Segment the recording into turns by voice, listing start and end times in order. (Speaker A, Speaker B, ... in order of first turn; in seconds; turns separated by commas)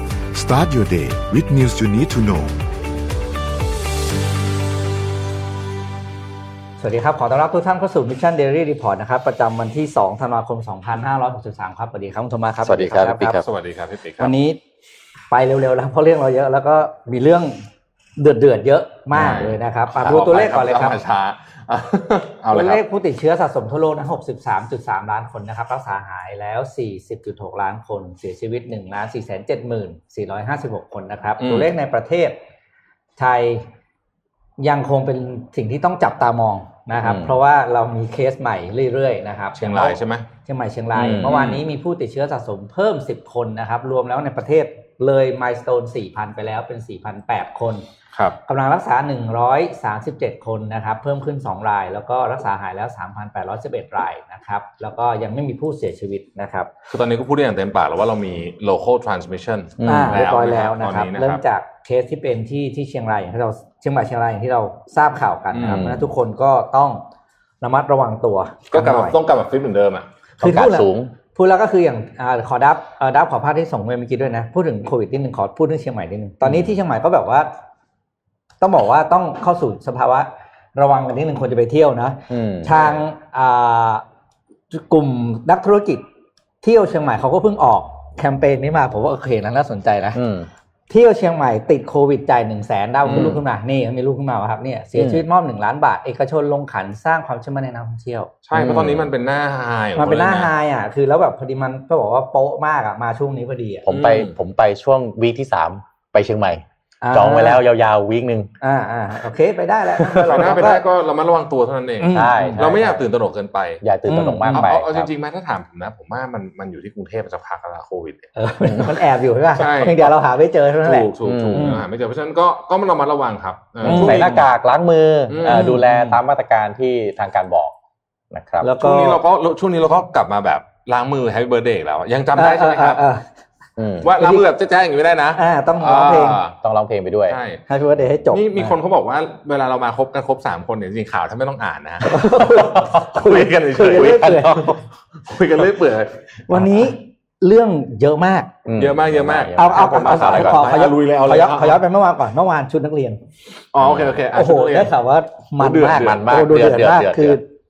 Speaker A: 0.3-2.6, Speaker B: 6.8-13.4, Speaker C: 12.6-13.4, Speaker D: 13.2-14.3, Speaker B: 14.2-14.6, Speaker B: 15.3-17.6, Speaker B: 18.2-21.0, Speaker D: 19.1-22.8, Speaker C: 19.2-19.5, Speaker B: 22.5-32.4, Speaker D: 31.4-31.7, Speaker B: 33.2-33.6, Speaker B: 34.6-47.8, Speaker C: 37.0-37.4, Speaker D: 39.6-40.2, Speaker C: 41.0-41.5, Speaker D: 41.2-41.6, Speaker B: 48.5-56.7, Speaker D: 56.9-61.4, Speaker C: 59.8-60.2, Speaker B: 59.8-67.0, Speaker D: 65.5-66.0, Speaker C: 65.7-66.0, Speaker B: 67.6-69.2, Speaker D: 68.7-70.1, Speaker B: 70.4-77.5, Speaker C: 70.4-71.1, Speaker C: 76.4-76.7, Speaker B: 78.6-84.0, Speaker C: 82.3-82.8, Speaker B: 84.7-86.0, Speaker B: 86.6-90.2, Speaker C: 90.1-90.5, Speaker B: 90.9-98.3, Speaker D: 93.1-93.3, Speaker C: 93.1-93.4, Speaker C: 94.9-95.2, Speaker D: 98.5-100.5, Speaker C: 98.5-99.1, Speaker B: 99.9-103.9, Speaker C: 103.8-108.5, Speaker D: 103.9-104.3, Speaker B: 107.0-107.6, Speaker B: 108.6-110.8, Speaker C: 110.0-110.4, Speaker D: 110.3-118.3, Speaker B: 112.0-112.6, Speaker C: 112.1-113.1, Speaker C: 113.8-115.1, Speaker B: 118.3-121.8, Speaker D: 119.5-120.1, Speaker D: 120.8-124.5, Speaker C: 121.2-121.8, Speaker C: 123.8-127.7, Speaker B: 123.8-124.2, Speaker D: 125.3-125.7, Speaker B: 125.4-126.2, Speaker C: 128.3-128.7, Speaker B: 128.6-129.2, Speaker D: 128.8-133.0, Speaker B: 132.3-133.2, Speaker C: 133.8-134.1, Speaker D: 134.0-136.6, Speaker B: 134.2-134.4, Speaker B: 135.3-136.4, Speaker C: 136.6-137.4, Speaker D: 137.3-137.6, Speaker B: 137.7-138.8, Speaker D: 138.3-146.2, Speaker B: 142.0-144.8, Speaker C: 142.4-143.2, Speaker C: 143.8-144.8, Speaker B: 146.5-148.5, Speaker C: 148.6-150.7, Speaker D: 148.7-151.8, Speaker B: 149.6-153.2, Speaker D: 153.7-154.9, Speaker C: 153.8-154.2, Speaker B: 154.3-157.5, Speaker D: 155.6-156.2, Speaker C: 155.8-157.4